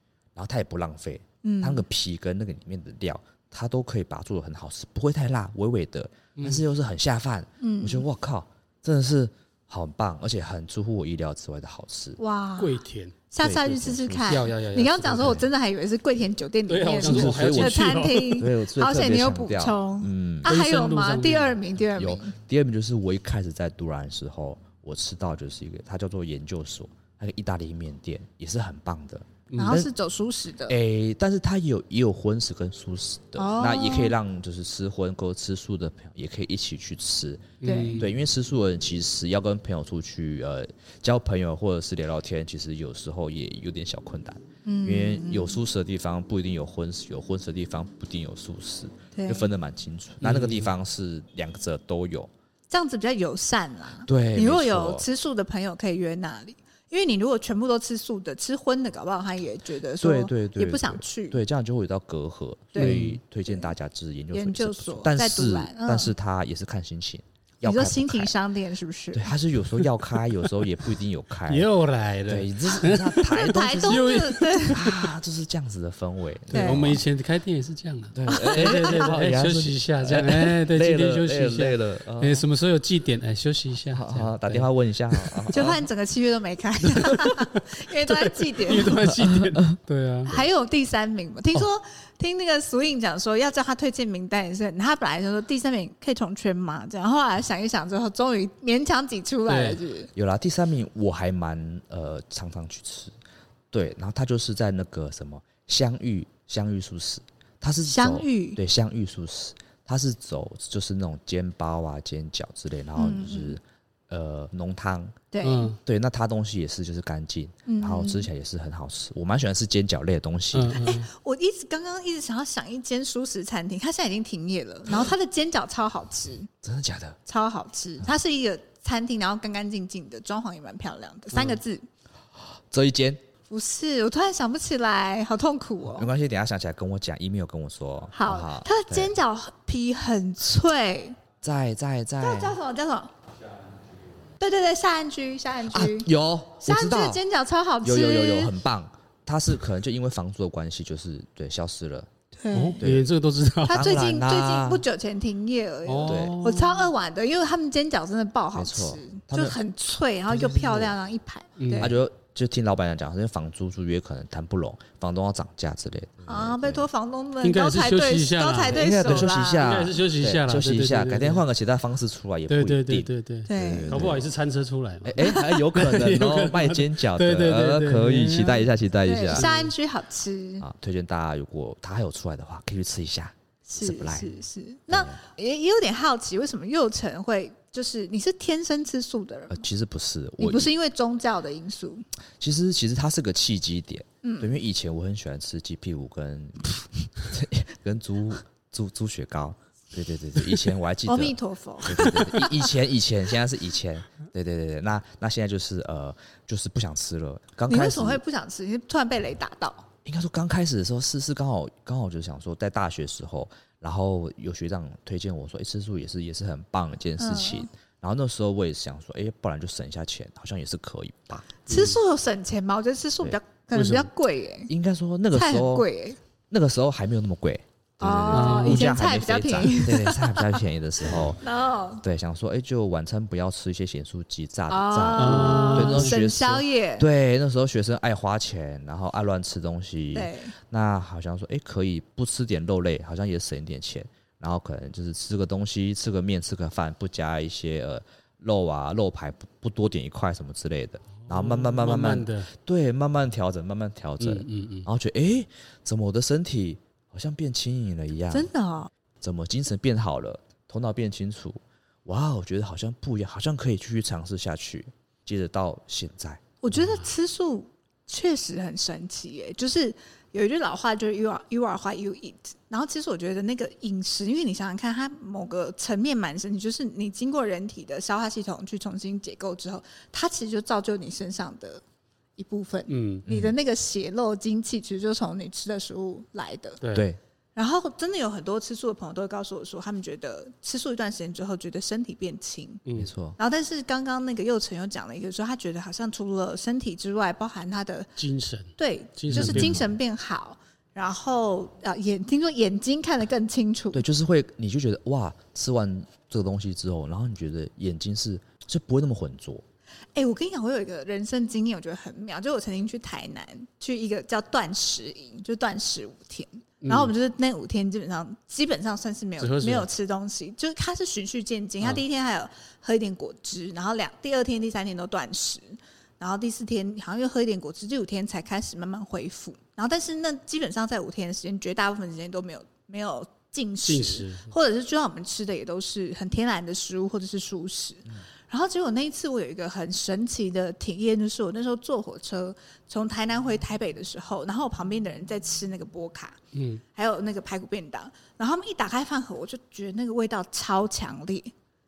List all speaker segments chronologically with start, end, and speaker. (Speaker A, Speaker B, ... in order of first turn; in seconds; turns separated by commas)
Speaker A: 0.3-12.2, Speaker B: 1.4-1.8, Speaker C: 6.4-6.6, Speaker B: 7.6-8.1, Speaker B: 12.2-22.3, Speaker C: 12.6-13.1, Speaker A: 13.4-14.4, Speaker C: 14.2-15.5, Speaker C: 16.7-18.4, Speaker A: 17.0-20.5, Speaker C: 20.4-21.6, Speaker A: 21.9-29.9, Speaker C: 29.5-29.8, Speaker B: 29.6-30.8, Speaker A: 30.7-52.3, Speaker B: 33.4-34.1, Speaker C: 37.6-38.1, Speaker B: 37.6-38.0, Speaker B: 44.6-45.6, Speaker B: 49.1-49.5, Speaker C: 50.2-50.7, Speaker B: 52.7-61.4, Speaker A: 54.1-55.0, Speaker A: 60.0-68.3, Speaker B: 62.7-63.7, Speaker C: 62.8-63.1, Speaker B: 64.3-66.1, Speaker B: 67.6-69.3, Speaker A: 69.1-71.7, Speaker C: 71.5-75.1, Speaker A: 72.3-77.0, Speaker B: 73.2-74.8, Speaker C: 76.5-85.5, Speaker B: 76.5-77.0, Speaker A: 78.1-82.5, Speaker B: 78.3-79.1, Speaker A: 83.9-85.8, Speaker B: 85.5-89.0, Speaker C: 86.9-87.5, Speaker C: 88.1-90.3, Speaker A: 89.0-89.7, Speaker B: 90.3-100.1, Speaker C: 99.5-99.8, Speaker A: 100.2-103.1, Speaker A: 103.7-115.2, Speaker B: 107.8-108.6, Speaker B: 113.0-113.6, Speaker B: 115.3-115.7, Speaker C: 115.4-115.8, Speaker A: 115.8-120.9, Speaker B: 117.7-118.3, Speaker C: 120.5-121.1, Speaker B: 120.7-126.5, Speaker A: 126.6-127.2, Speaker B: 127.2-131.8, Speaker A: 132.7-133.2, Speaker B: 133.5-136.1, Speaker A: 135.9-139.1, Speaker B: 138.1-141.2, Speaker A: 141.4-142.6, Speaker B: 142.2-143.1, Speaker B: 144.4-146.1, Speaker A: 145.7-147.2, Speaker B: 146.6-148.5, Speaker A: 147.8-152.1, Speaker B: 152.3-152.8, Speaker C: 152.5-153.8, Speaker A: 152.8-153.1, Speaker B: 153.6-161.9, Speaker A: 153.7-154.8, Speaker C: 155.9-156.9, Speaker A: 156.1-156.3, Speaker A: 158.5-159.6, Speaker A: 160.3-160.9, Speaker C: 161.6-161.9, Speaker A: 161.8-166.8, Speaker B: 166.3-169.6, Speaker C: 167.4-171.4, Speaker A: 168.7-174.2, Speaker C: 172.5-178.7, Speaker B: 173.4-174.1, Speaker A: 175.0-179.5, Speaker B: 179.0-180.7, Speaker C: 179.3-179.7, Speaker A: 180.6-184.4, Speaker B: 183.7-189.7, Speaker A: 184.9-185.2, Speaker A: 189.5-190.7, Speaker B: 190.4-192.0, Speaker A: 192.4-208.2, Speaker B: 194.2-194.5, Speaker B: 201.1-202.7, Speaker B: 207.7-209.9, Speaker A: 210.0-221.6, Speaker B: 217.2-217.7, Speaker B: 221.7-224.7, Speaker C: 221.7-221.9, Speaker C: 223.8-224.1, Speaker A: 224.7-225.9, Speaker B: 225.3-226.2, Speaker A: 226.5-231.4, Speaker B: 228.0-230.6, Speaker C: 228.3-228.9, Speaker B: 231.4-232.0, Speaker A: 232.0-258.5, Speaker B: 234.7-237.1, Speaker C: 235.2-236.1, Speaker B: 240.1-240.5, Speaker C: 251.2-252.5, Speaker C: 254.2-254.9, Speaker B: 258.3-258.9, Speaker A: 259.2-266.4, Speaker B: 266.6-281.8, Speaker B: 282.4-286.8, Speaker C: 282.9-283.2, Speaker A: 283.2-283.5, Speaker C: 286.8-287.1, Speaker A: 286.9-287.2, Speaker B: 287.5-292.8, Speaker C: 292.9-293.1, Speaker A: 292.9-293.4, Speaker B: 293.4-298.1, Speaker C: 298.2-299.8, Speaker B: 298.8-304.0, Speaker A: 299.3-299.9, Speaker A: 303.9-309.6, Speaker B: 310.1-346.4, Speaker C: 316.8-317.1, Speaker C: 319.4-319.9, Speaker C: 333.8-334.5, Speaker C: 346.5-346.8, Speaker B: 346.9-351.5